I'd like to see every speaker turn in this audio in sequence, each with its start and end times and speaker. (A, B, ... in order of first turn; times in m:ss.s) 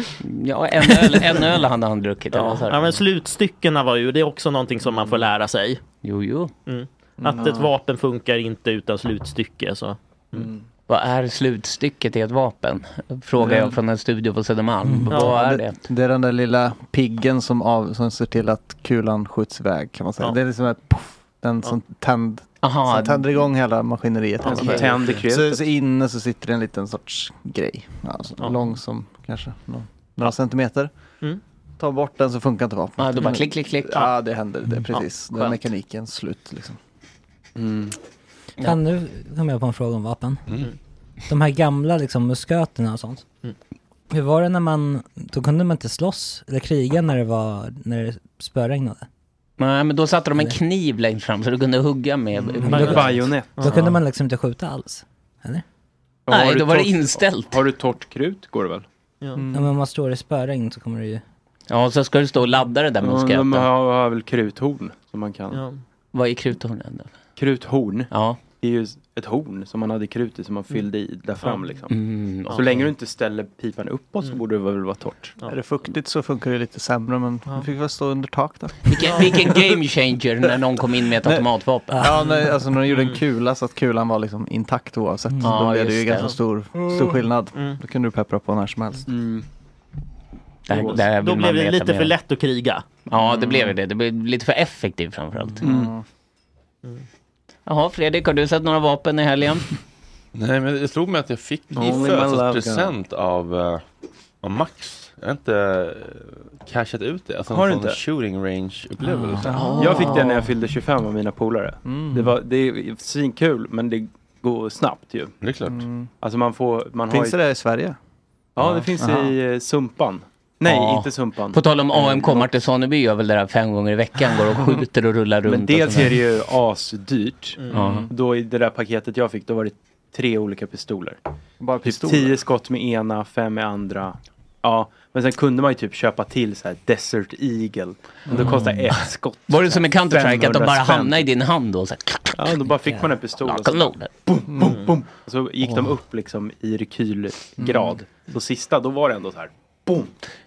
0:00.2-0:03.0 A
0:02.3-0:05.8 B
0:06.0-0:06.5 A
0:06.6-0:10.5 B
0:07.2-0:07.7 C
0:10.9-0:15.8 A
0:14.8-0:15.3 D
0:15.1-0:15.4 B
0:15.2-0:30.9 C
0:22.6-0:23.3 A
0:24.4-0:24.8 B
0:24.4-0:25.6 E
0:24.5-0:24.8 A
0:31.8-0:36.8 C
0:33.0-0:34.1 A
0:34.9-0:35.5 B
0:37.6-0:38.0 E
0:38.6-0:40.6 D
0:41.3-0:43.2 D
0:44.1-0:49.0 D
0:49.6-0:54.0 A
0:52.4-0:53.6 E
0:52.6-0:55.6 D
0:52.7-0:53.0 B
0:56.3-0:58.8 E
0:56.3-0:57.6 A
0:59.2-0:59.4 B
0:59.4-0:59.7 C
0:59.5-1:01.2 D
1:01.7-1:03.7 A
1:03.0-1:05.6 E
1:05.5-1:05.8 B
1:06.1-1:07.1 A
1:07.4-1:15.4 E
1:08.1-1:08.4 A
1:11.9-1:12.9 A
1:12.5-1:12.7 B
1:15.4-1:18.9 C
1:18.9-1:22.1 A
1:21.9-1:22.2 D
1:22.0-1:29.0 C
1:22.1-1:23.2 B
1:25.3-1:25.6 D
1:25.4-1:26.3 A
1:27.5-1:27.8 B
1:29.0-1:29.4 E
1:30.7-1:32.1 A
1:30.7-1:31.0 E
1:31.0-1:32.8 B
1:33.1-1:35.7 A
1:35.6-1:35.9 E
1:35.6-1:36.0 C
1:37.6-1:39.7 A
1:40.3-1:43.8 F
1:41.7-1:42.9 E
1:44.4-1:49.6 F
1:47.5-1:48.0 E
1:49.1-1:49.6 D
1:49.4-1:50.2 C
1:49.5-1:50.4 A
1:49.8-1:55.4 E
1:51.8-1:52.4 C
1:55.4-1:55.8 F
1:55.6-1:56.1 C
1:56.2-1:57.4 E
1:57.1-1:58.0 C
1:58.6-2:02.5 E
1:59.0-1:59.4 C
2:00.6-2:06.2 A
2:05.4-2:11.2 E
2:07.6-2:08.0 B
2:07.7-2:08.1 A
2:11.6-2:12.4 C
2:11.8-2:21.3 E
2:18.3-2:18.6 C
2:18.4-2:22.7 A
2:22.3-2:30.1 E
2:23.4-2:24.1 A
2:24.6-2:24.9 B